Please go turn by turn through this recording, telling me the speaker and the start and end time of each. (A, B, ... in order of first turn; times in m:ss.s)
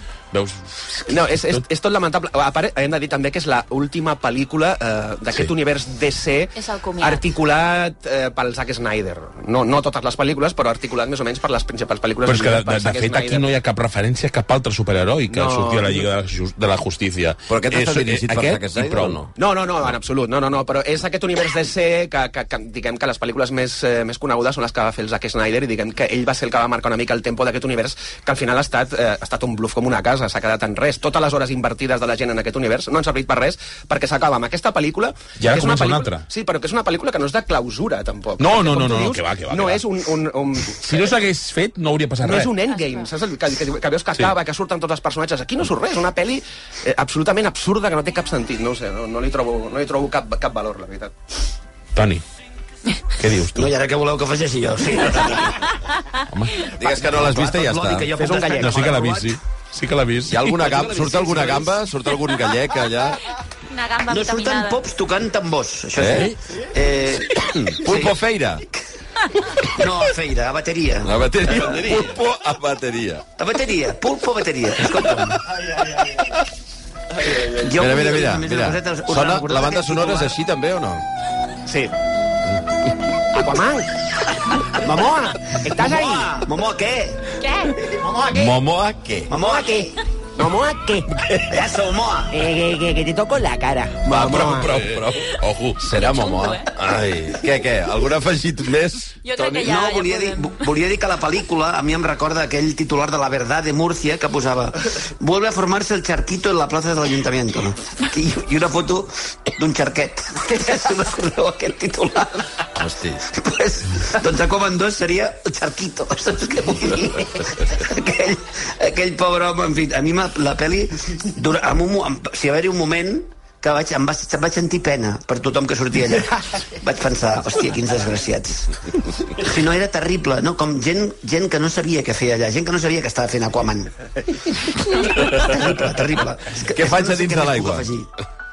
0:00.3-0:01.6 A
0:01.1-0:13.5 B
0:06.5-0:07.2 C
0:12.2-0:19.2 A
0:15.3-0:16.1 B
0:17.5-0:19.3 D
0:19.4-0:41.1 B
0:35.4-0:36.2 A
0:38.4-0:39.8 A
0:40.7-0:42.5 A
0:42.2-0:51.1 B
0:42.6-0:43.1 C
0:51.9-0:52.2 A
0:53.2-0:53.7 A
0:53.5-0:55.6 E
0:56.3-0:56.7 A
0:56.7-0:58.1 D
0:56.8-0:59.4 E
0:58.2-0:58.9 B
0:58.6-1:00.6 A
1:00.2-1:03.2 D
1:00.6-1:01.8 E
1:03.7-1:04.8 C
1:04.1-1:08.2 E
1:06.0-1:06.3 D
1:07.3-1:08.6 D
1:09.6-1:11.7 E
1:11.0-1:13.2 D
1:13.4-1:15.5 E
1:17.3-1:21.0 D
1:17.4-1:20.4 E
1:21.6-1:21.9 B
1:23.3-1:23.9 B
1:24.7-1:26.4 B
1:25.7-1:27.3 E
1:27.4-1:27.7 C
1:27.8-1:28.5 B
1:28.3-1:29.3 D
1:29.3-1:29.9 E
1:29.3-1:31.4 B
1:31.4-1:32.5 E
1:32.3-1:34.8 B
1:34.0-1:39.2 D
1:34.7-1:35.8 A
1:35.9-1:36.7 C
1:39.2-1:40.6 C
1:39.3-1:52.6 E
1:52.8-1:53.2 D
1:53.2-2:08.7 E
2:09.3-2:13.9 E
2:14.8-2:18.1 E
2:16.7-2:17.9 D